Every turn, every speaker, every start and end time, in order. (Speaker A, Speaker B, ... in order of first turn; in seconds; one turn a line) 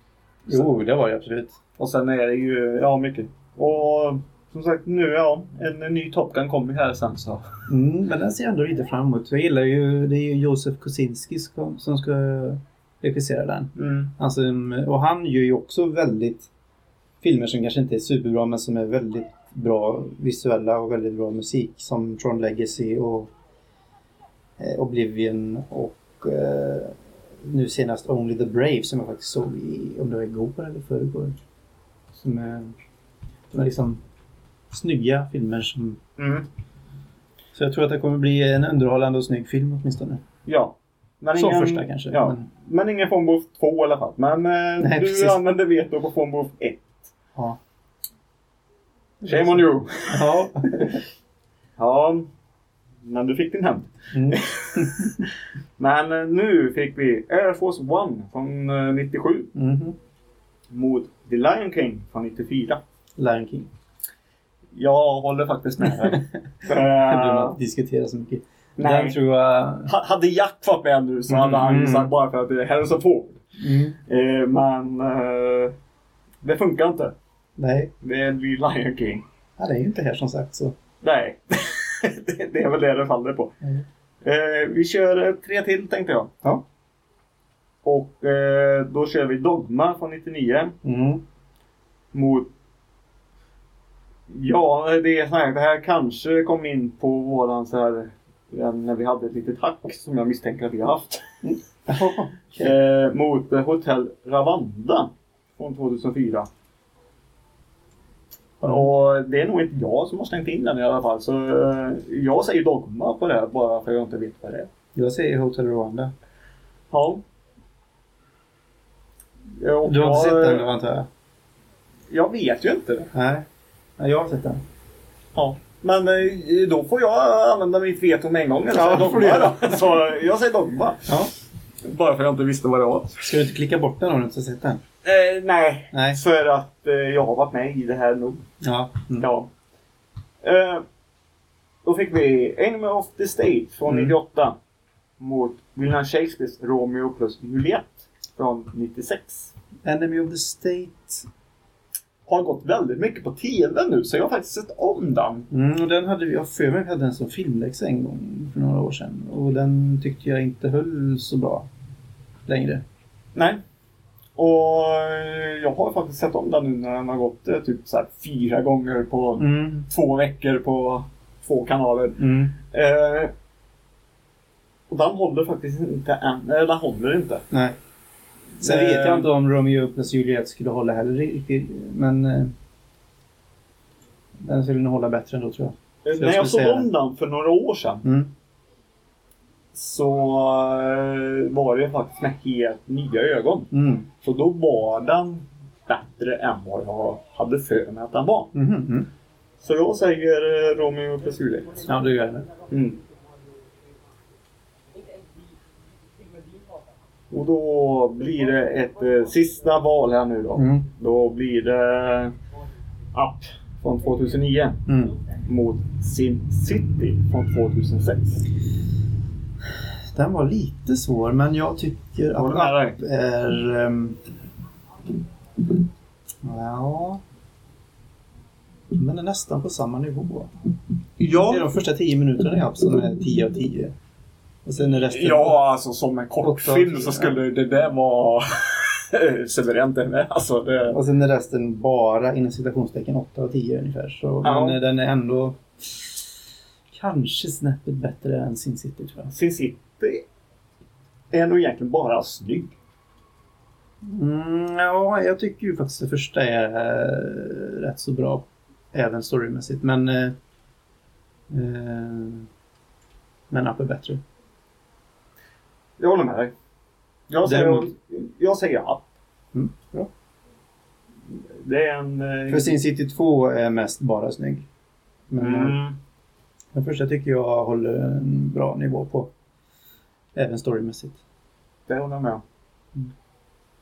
Speaker A: 0.5-1.6
Speaker B: 1.8-7.4
Speaker A: 7.7-16.5
Speaker B: 13.8-14.1
Speaker A: 17.2-23.3
Speaker A: 24.6-31.4
Speaker A: 32.1-32.7
Speaker A: 33.5-34.0
Speaker A: 34.7-36.0
Speaker B: 36.2-36.5
Speaker A: 37.5-40.2
Speaker B: 40.5-47.1
Speaker A: 41.4-42.4
Speaker A: 44.8-45.4
Speaker A: 49.2-51.0
Speaker B: 49.2-50.9
Speaker B: 51.8-52.3
Speaker B: 53.0-59.5
Speaker A: 54.1-55.2
Speaker A: 59.5-60.0
Speaker B: 60.7-62.8
Speaker A: 63.2-63.7
Speaker B: 64.7-67.5
Speaker A: 66.0-69.9
Speaker B: 68.8-69.2
Speaker B: 69.8-73.5
Speaker A: 71.3-72.1
Speaker A: 73.6-74.0
Speaker B: 74.0-75.7
Speaker B: 76.4-77.1
Speaker A: 77.6-77.9
Speaker B: 78.0-79.2
Speaker A: 79.6-80.7
Speaker B: 81.0-83.5
Speaker B: 84.2-86.3
Speaker B: 87.8-90.7
Speaker A: 90.8-91.2
Speaker B: 92.1-92.5
Speaker B: 94.3-101.3
Speaker A: 101.4-102.7
Speaker B: 102.6-106.5
Speaker A: 108.6-108.9
Speaker B: 108.6-114.7
Speaker A: 114.9-116.1
Speaker B: 116.9-117.2
Speaker B: 119.6-120.7
Speaker A: 119.8-121.1
Speaker B: 122.1-123.1
Speaker A: 123.1-123.5
Speaker A: 124.0-124.6
Speaker B: 125.3-131.1
Speaker A: 128.7-129.9
Speaker B: 131.8-133.3
Speaker A: 133.2-134.8
Speaker B: 135.0-138.4
Speaker A: 135.9-136.2
Speaker A: 138.6-139.3
Speaker B: 139.2-139.5
Speaker B: 140.4-140.8
Speaker B: 141.8-144.6
Speaker A: 143.9-144.1
Speaker B: 145.2-149.5
Speaker A: 149.8-151.2
Speaker B: 152.3-155.5
Speaker A: 155.5-161.7
Speaker A: 162.4-162.8
Speaker B: 163.3-163.6
Speaker B: 164.3-173.3
Speaker A: 169.4-169.9
Speaker A: 172.2-172.5
Speaker B: 174.9-177.4
Speaker A: 177.5-177.8
Speaker B: 178.6-179.3
Speaker A: 178.6-182.5
Speaker A: 184.4-186.9
Speaker B: 186.0-188.0
Speaker A: 188.0-188.3
Speaker B: 189.7-193.7
Speaker A: 193.7-194.1
Speaker B: 194.2-198.5
Speaker A: 198.5-199.1
Speaker B: 199.6-201.8
Speaker A: 201.8-202.5
Speaker B: 202.7-203.0
Speaker B: 207.3-212.3
Speaker A: 210.6-210.8
Speaker B: 213.1-214.8
Speaker A: 214.9-215.1
Speaker B: 215.4-218.4
Speaker A: 220.1-224.2
Speaker B: 222.4-223.0
Speaker A: 226.4-227.2
Speaker A: 228.9-230.5
Speaker B: 231.2-231.7
Speaker A: 231.3-233.9
Speaker A: 234.6-235.6
Speaker B: 235.0-241.0
Speaker A: 236.4-237.4
Speaker A: 240.9-245.6
Speaker B: 244.4-244.8
Speaker A: 246.9-249.3
Speaker B: 249.3-250.2
Speaker B: 251.3-252.8
Speaker A: 254.0-260.4
Speaker A: 261.5-262.5
Speaker A: 263.5-264.2
Speaker B: 266.0-266.5
Speaker B: 267.3-269.1
Speaker A: 267.4-267.9
Speaker A: 269.5-270.1
Speaker B: 271.3-272.8
Speaker A: 272.5-274.6
Speaker A: 275.3-275.8
Speaker B: 275.4-275.9
Speaker A: 276.7-279.3
Speaker A: 280.3-281.2
Speaker B: 281.9-282.4